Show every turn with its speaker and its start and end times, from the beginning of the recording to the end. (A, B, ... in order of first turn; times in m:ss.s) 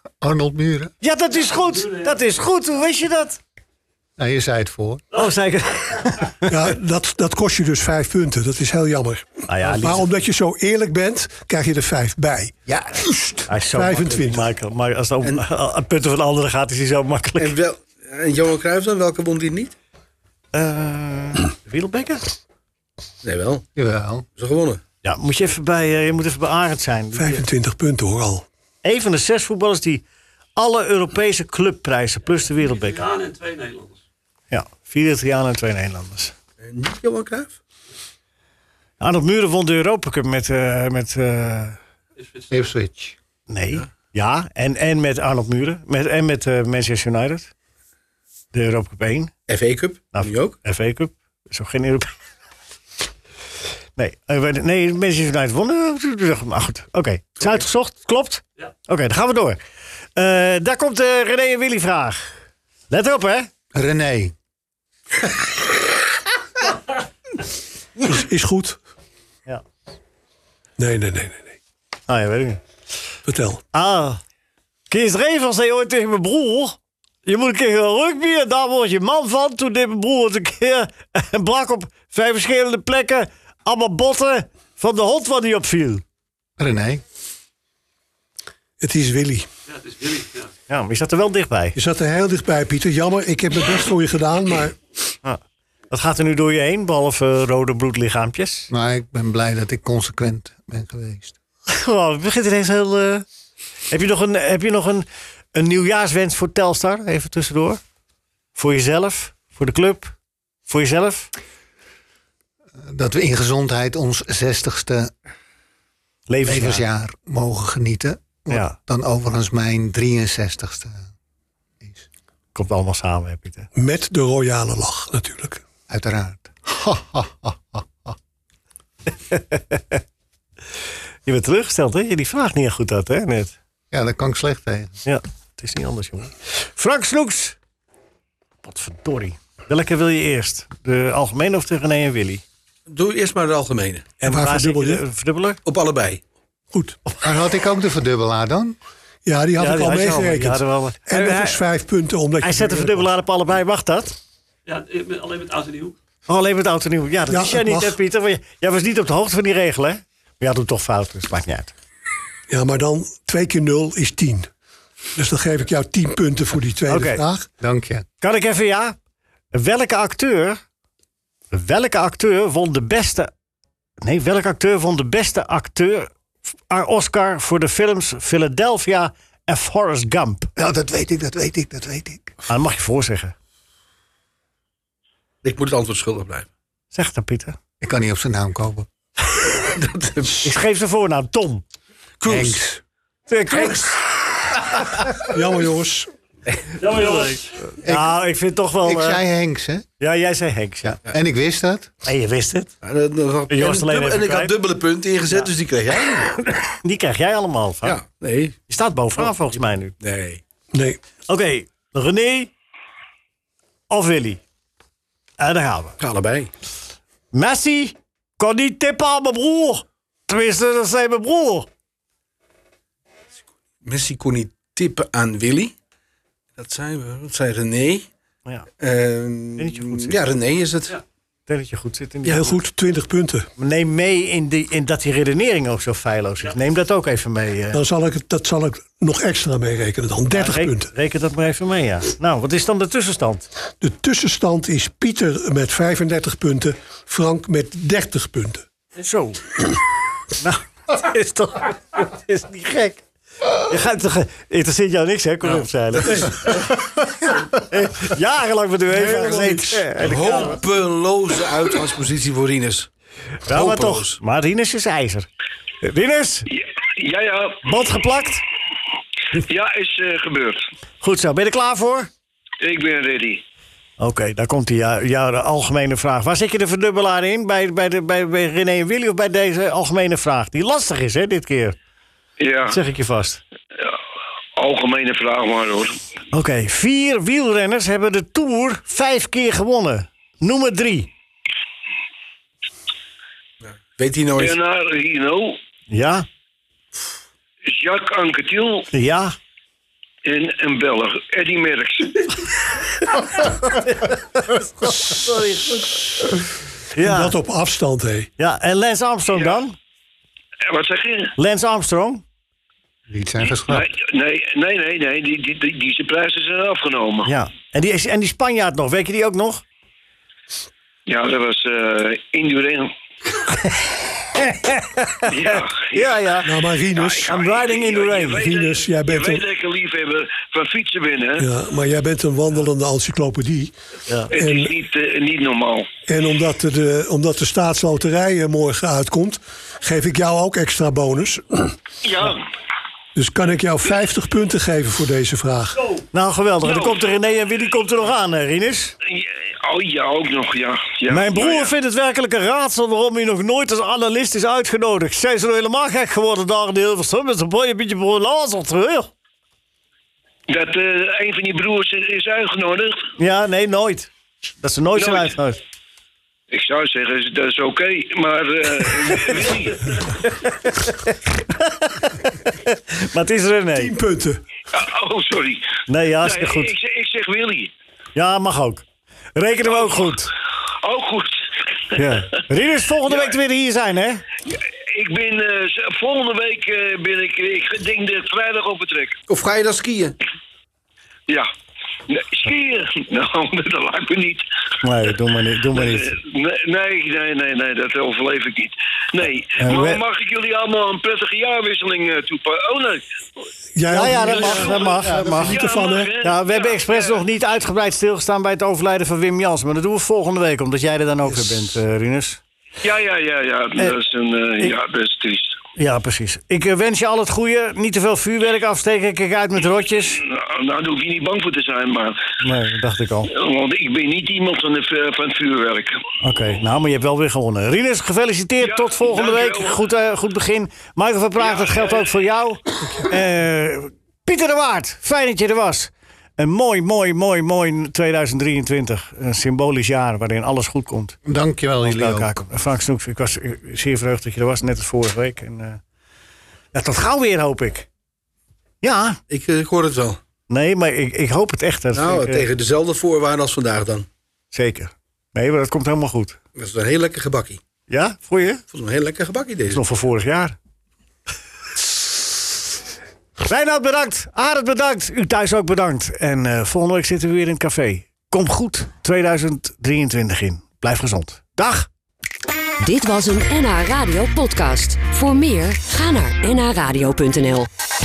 0:00.2-0:00.9 A
0:01.0-0:03.4 B
0:01.4-0:02.2 C
0:04.2-0:05.0 A
0:05.1-0:06.7 B
0:06.5-0:12.5 D
0:09.5-0:10.1 B
0:12.7-0:13.4 A
0:13.5-0:17.5 B
0:13.7-0:14.4 D
0:17.4-0:19.7 E
0:20.5-0:22.3 B
0:23.2-0:23.6 E
0:23.8-0:24.2 A
0:24.4-0:24.8 E
0:25.0-0:27.4 B
0:27.2-0:28.4 D
0:28.8-0:30.0 B
0:30.6-0:33.1 B
0:32.3-0:34.0 C
0:34.5-0:36.3 B
0:36.6-0:37.6 E
0:39.0-0:41.8 B
0:42.2-0:42.5 C
0:42.5-0:43.2 A
0:43.5-0:47.5 B
0:48.5-0:49.3 B
0:49.5-0:50.6 E
0:50.1-0:52.1 B
0:54.0-0:59.6 B
1:00.2-1:02.3 B
1:02.9-1:03.5 B
1:03.7-1:04.3 A
1:08.0-1:08.8 D
1:10.8-1:11.6 D
1:12.1-1:12.6 B
1:13.2-1:13.6 D
1:13.7-1:14.2 B
1:14.9-1:26.0 B
1:26.6-1:27.0 A
1:28.8-1:29.5 D
1:29.7-1:30.5 C
1:30.7-1:31.8 B
1:31.8-1:34.8 D
1:35.2-1:38.7 B
1:38.7-1:41.4 A
1:41.7-1:43.2 B
1:43.9-1:47.8 B
1:48.6-1:50.1 B
1:50.7-1:51.3 B
1:52.8-1:55.1 A
1:56.3-1:56.8 B
1:56.4-2:01.0 A
1:58.5-1:58.8 B
2:02.5-2:03.7 B
2:03.7-2:05.6 D
2:05.9-2:08.1 A
2:09.3-2:10.0 B
2:11.2-2:13.6 B
2:13.9-2:15.0 A
2:15.0-2:17.6 B
2:18.6-2:22.4 B
2:22.9-2:24.1 E
2:24.2-2:25.6 B
2:24.2-2:25.0 D
2:25.6-2:26.2 E
2:26.7-2:27.0 D
2:27.2-2:28.8 A
2:29.2-2:33.1 D
2:29.6-2:31.6 B
2:32.4-2:34.2 B
2:34.6-2:36.0 C
2:36.3-2:41.7 B
2:37.3-2:37.9 D
2:42.5-2:44.5 D
2:45.2-2:47.5 D
2:46.9-2:47.2 B
2:47.6-2:48.0 A
2:48.2-2:49.0 B
2:49.5-2:50.6 B
2:51.5-2:53.3 B
2:54.0-2:56.1 B
2:56.7-3:00.5 B
3:00.6-3:02.3 A
3:02.5-3:03.3 B
3:05.4-3:06.5 E
3:06.9-3:07.6 B
3:07.8-3:08.9 A
3:09.5-3:10.4 E
3:10.4-3:11.6 B
3:12.2-3:12.6 E
3:12.2-3:12.8 A
3:13.3-3:14.0 B
3:15.3-3:16.1 D
3:16.8-3:17.6 C
3:16.9-3:19.2 B
3:17.8-3:18.1 A
3:18.8-3:19.9 A
3:20.0-3:21.0 B
3:20.8-3:21.9 A
3:22.0-3:22.7 B
3:22.8-3:26.4 E
3:23.5-3:24.5 B
3:26.3-3:28.0 B
3:27.8-3:28.6 E
3:28.7-3:29.9 B
3:30.0-3:30.4 E
3:30.7-3:31.0 D
3:31.3-3:32.5 B
3:33.9-3:34.4 B
3:35.4-3:36.0 B
3:36.0-3:36.5 E
3:37.3-3:41.7 B
3:43.8-3:45.7 E
3:46.6-3:48.1 E
3:48.8-3:51.0 E
3:49.6-3:50.2 B
3:51.5-3:52.6 B
3:52.2-3:53.5 D
3:53.6-3:57.8 B
3:57.7-4:00.9 D
4:00.3-4:03.5 B
4:03.8-4:08.6 D
4:09.0-4:09.6 B
4:10.4-4:20.5 B
4:18.9-4:19.9 D
4:20.0-4:22.9 E
4:23.5-4:25.3 B
4:23.5-4:24.2 E
4:25.8-4:26.5 B
4:26.5-4:27.6 F
4:27.6-4:28.4 B
4:29.4-4:30.6 F
4:31.0-4:32.1 B
4:32.6-4:33.4 F
4:34.0-4:41.8 B
4:42.4-4:42.8 F
4:42.7-4:43.4 B
4:44.6-4:46.0 F
4:46.3-4:51.1 B
4:53.6-4:54.6 E
4:54.4-4:55.6 F
4:55.9-4:56.2 B
4:57.6-4:58.9 F
4:58.9-4:59.4 B
5:00.2-5:02.4 F
5:03.7-5:06.0 B
5:06.9-5:07.3 B
5:07.0-5:08.3 D
5:08.4-5:09.8 B
5:10.7-5:11.3 F
5:11.4-5:12.2 B
5:13.1-5:13.9 A
5:13.4-5:17.3 F
5:17.2-5:19.6 B
5:21.1-5:22.9 F
5:24.3-5:26.5 B
5:25.3-5:26.2 F
5:26.4-5:27.3 D
5:26.9-5:31.5 F
5:27.2-5:28.4 B
5:28.3-5:29.4 D
5:31.4-5:33.7 D
5:34.1-5:34.3 B
5:34.3-5:35.9 F
5:34.3-5:34.7 D
5:36.1-5:41.8 D
5:42.0-5:42.4 F
5:43.1-5:45.9 D
5:46.1-5:48.9 B
5:46.6-5:47.0 F
5:49.0-5:51.7 F
5:51.1-5:59.1 B
6:00.5-6:03.0 F
6:03.2-6:05.6 B
6:04.9-6:05.3 F
6:06.5-6:10.0 F
6:10.4-6:13.9 B
6:13.7-6:14.4 D
6:14.7-6:17.7 F
6:15.9-6:16.7 B
6:18.1-6:18.8 B
6:19.4-6:20.3 B
6:20.8-6:22.0 F
6:21.9-6:24.2 B
6:23.1-6:23.3 F
6:24.5-6:29.2 F
6:29.3-6:30.2 E
6:32.1-6:34.4 F
6:34.8-6:36.1 B
6:35.7-6:43.0 F
6:39.6-6:40.0 B
6:43.7-6:44.8 D
6:43.9-6:45.6 B
6:44.2-6:47.2 F
6:44.9-6:45.6 A
6:45.4-6:46.1 D
6:46.2-6:52.4 B
6:52.8-6:55.6 F
6:55.8-7:00.2 B
7:00.1-7:02.2 F
7:02.4-7:03.3 B
7:03.3-7:06.0 F
7:06.2-7:21.2 B
7:08.6-7:09.8 F
7:11.4-7:12.0 F
7:21.2-7:22.3 A
7:21.8-7:25.8 B
7:26.7-7:27.9 B
7:28.8-7:29.2 B
7:29.3-7:30.2 E
7:30.5-7:32.5 B
7:31.9-7:34.1 E
7:34.5-7:36.4 B
7:36.5-7:37.6 E
7:37.9-7:38.6 B
7:38.7-7:39.8 E
7:39.7-7:40.6 B
7:43.4-7:51.9 B
7:52.8-7:57.7 G